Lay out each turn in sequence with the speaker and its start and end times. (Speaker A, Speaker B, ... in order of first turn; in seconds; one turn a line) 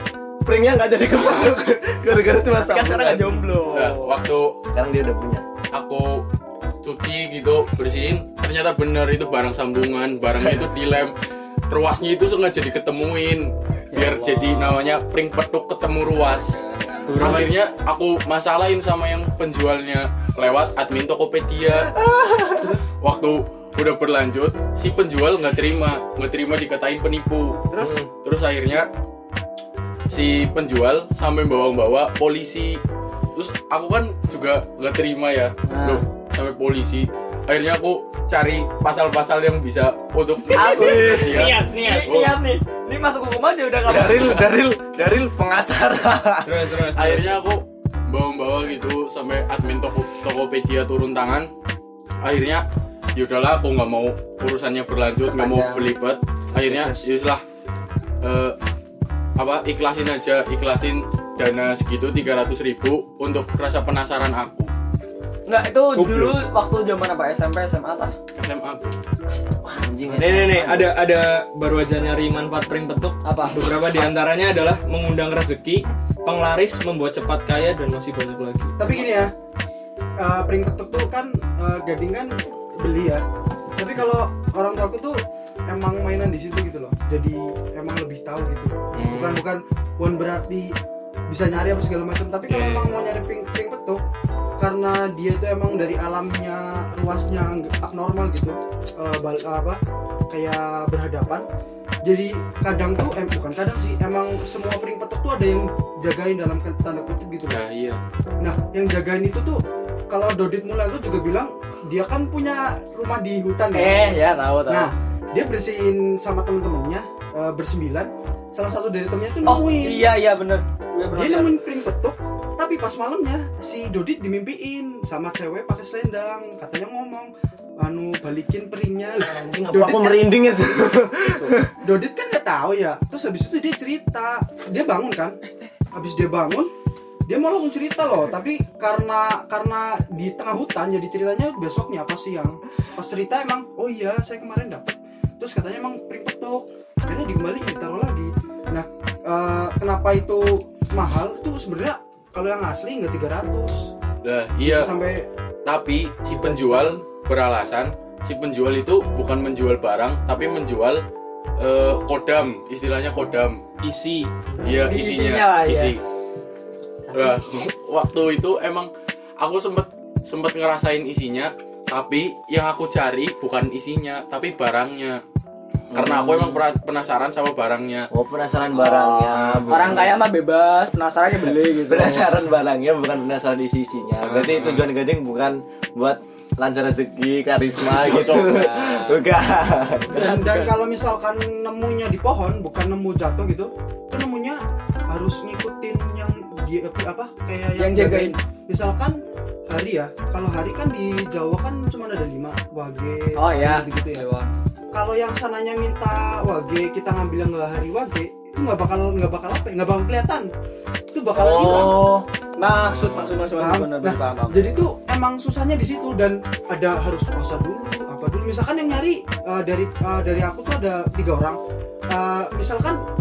Speaker A: 0.5-3.6
Speaker B: 2.6-4.2
Speaker C: 3.7-4.6
Speaker A: 4.6-5.4
Speaker C: 5.7-6.2
Speaker C: 6.8-11.1
Speaker C: 11.7-16.6
Speaker B: 13.9-14.8
Speaker B: 16.1-17.4
Speaker D: 17.1-17.5
Speaker C: 17.2-21.9
Speaker A: 21.9-22.7
Speaker C: 23.0-28.9
Speaker A: 27.8-28.1
Speaker C: 30.1-32.8
Speaker C: 33.3-42.4
Speaker B: 35.6-36.0
Speaker B: 40.5-44.4
Speaker D: 40.6-42.1
Speaker A: 43.8-46.7
Speaker C: 44.1-44.4
Speaker D: 46.4-47.4
Speaker C: 46.9-51.5
Speaker C: 52.2-57.4
Speaker B: 55.3-55.9
Speaker D: 56.6-57.0
Speaker C: 58.2-58.5
Speaker C: 59.4-64.7
Speaker B: 65.5-68.1
Speaker D: 65.9-66.3
Speaker C: 68.3-68.9
Speaker A: 69.6-70.9
Speaker D: 70.1-78.8
Speaker B: 73.2-74.0
Speaker E: 78.8-79.3
Speaker E: 80.2-83.2
Speaker E: 83.8-90.8
Speaker D: 89.0-89.5
Speaker E: 91.3-94.0
Speaker D: 92.5-92.9
Speaker E: 94.6-99.8
Speaker E: 100.3-101.5
Speaker E: 102.0-107.6
Speaker C: 107.5-108.0
Speaker E: 108.4-114.0
Speaker B: 113.7-114.9
Speaker E: 114.7-120.1
Speaker B: 119.4-121.6
Speaker E: 121.1-130.3
Speaker A: 129.2-131.7
Speaker E: 131.4-135.4
Speaker E: 135.9-136.7
Speaker E: 137.3-153.9
Speaker C: 154.2-154.9
Speaker E: 154.6-155.3
Speaker C: 155.6-161.0
Speaker E: 156.3-157.0
Speaker C: 161.6-163.6
Speaker D: 163.8-164.4
Speaker C: 164.6-166.0
Speaker B: 164.7-165.9
Speaker C: 167.1-175.2
Speaker A: 175.9-176.6
Speaker C: 175.9-178.1
Speaker A: 178.1-180.2
Speaker B: 178.7-182.3
Speaker C: 179.2-180.1
Speaker A: 181.9-190.2
Speaker C: 184.2-184.9
Speaker C: 187.8-188.9
Speaker B: 188.3-189.2
Speaker B: 190.1-190.8
Speaker E: 190.1-199.2
Speaker B: 197.8-198.3
Speaker E: 199.7-204.2
Speaker B: 203.3-204.5
Speaker E: 204.9-210.5
Speaker E: 211.1-212.0
Speaker A: 211.3-212.2
Speaker B: 212.6-214.6
Speaker C: 212.7-213.4
Speaker E: 213.6-221.6
Speaker E: 222.1-223.0